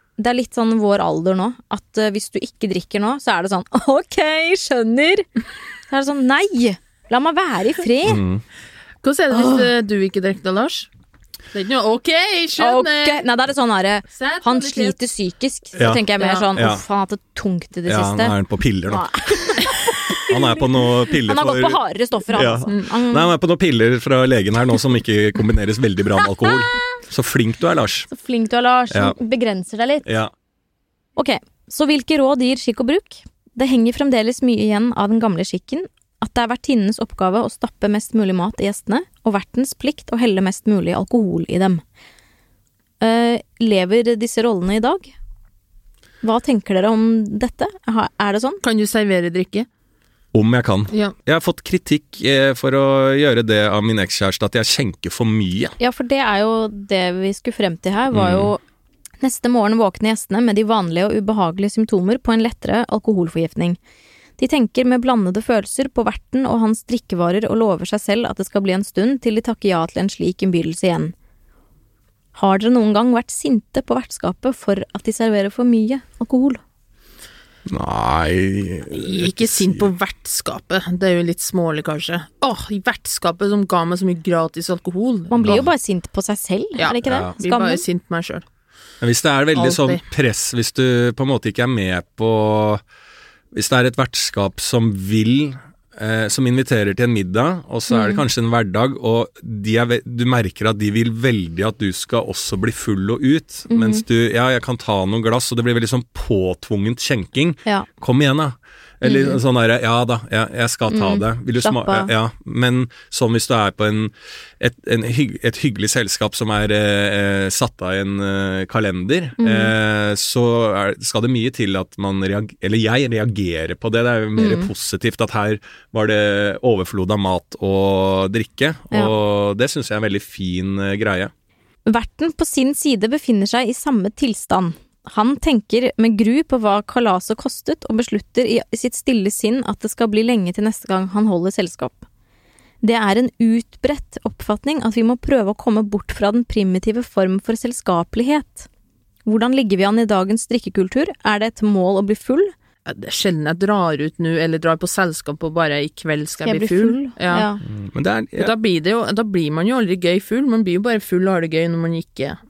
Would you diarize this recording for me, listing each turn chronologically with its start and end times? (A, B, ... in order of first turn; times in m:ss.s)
0:00.2-0:05.2 A
0:05.9-0:08.2 A
0:08.0-0:08.4 B
0:09.0-0:10.9 C
0:09.3-0:09.7 A
0:11.5-0:13.2 C
0:12.6-0:18.4 A
0:14.1-0:14.9 C
0:15.8-0:16.0 B
0:16.2-0:16.5 C
0:16.5-0:16.8 B
0:17.9-0:21.8 B
0:18.9-0:23.3 A
0:22.3-0:28.1 B
0:28.1-0:30.1 A
0:28.9-0:29.2 B
0:30.0-0:30.3 B
0:31.2-0:41.8 A
0:43.0-0:45.1 A
0:46.2-0:48.6 A
0:48.6-0:49.7 C
0:50.3-0:55.7 B
0:55.8-0:58.6 A
0:58.1-0:58.5 B
0:59.2-1:03.8 A
1:04.4-1:11.1 A
1:12.3-1:16.6 A
1:17.7-1:19.9 B
1:18.9-1:25.4 C
1:25.3-1:27.8 A
1:25.4-1:25.7 B
1:26.8-1:28.4 C
1:27.0-1:27.3 B
1:29.0-1:32.8 B
1:29.5-1:30.0 C
1:33.5-2:11.3 B
1:37.9-1:38.2 A
1:43.7-1:44.0 A
1:49.0-1:49.4 A
1:50.9-1:52.1 A
1:59.4-1:59.7 A
2:04.4-2:04.7 A
2:11.8-2:22.0 A
2:22.8-2:28.7 A
2:29.2-2:32.5 A
2:32.8-2:37.5 C
2:36.4-2:37.6 A
2:37.6-2:38.5 B
2:38.4-2:42.4 C